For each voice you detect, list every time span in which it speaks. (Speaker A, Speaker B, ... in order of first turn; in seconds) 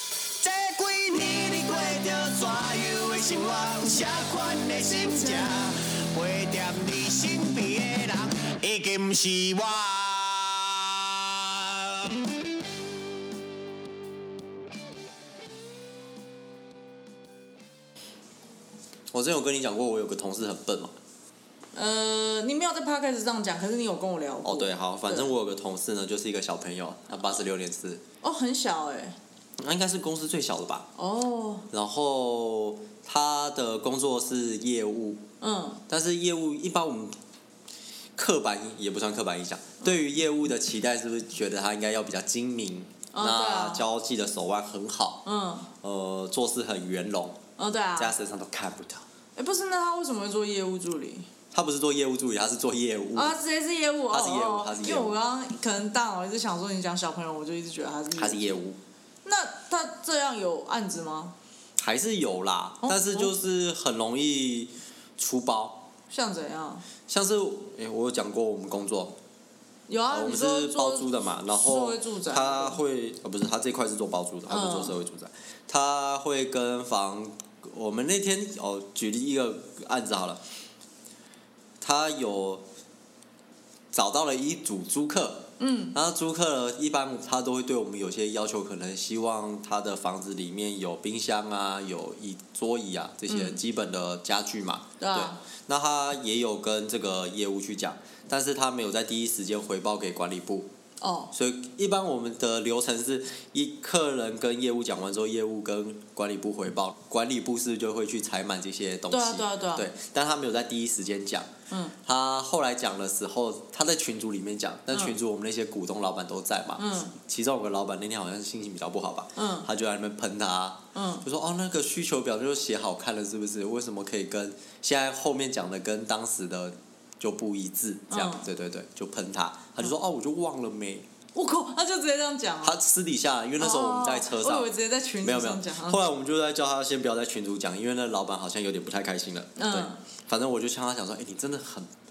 Speaker A: 0.4-12.2
Speaker B: 19.1-20.9, 24.4-28.0, 29.6-30.9, 31.7-35.2, 35.9-37.2, 38.1-45.2, 45.8-47.4, 48.0-49.0, 51.5-53.3, 54.1-55.1, 58.1-58.8, 61.8-65.9, 67.1-69.2, 70.1-80.4, 81.8-82.6, 83.9-100.7, 101.3-111.5, 112.0-131.1, 132.6-134.7, 135.2-141.9
Speaker C: 21.7-25.3, 28.2-29.1, 30.9-31.7, 35.4-35.8, 43.1-43.8, 45.2-45.7, 47.6-48.1, 49.4-51.3, 53.1-58.6, 59.2-61.3, 62.8-63.3, 66.1-66.8, 69.9-72.8, 74.5-75.0, 85.6-86.0, 93.3-93.6, 95.0-95.4, 101.0-101.3, 109.1-109.9, 116.8-117.1, 119.3-119.7, 120.9-121.2, 128.1-128.4, 131.3-132.8, 133.6-136.0, 139.6-140.0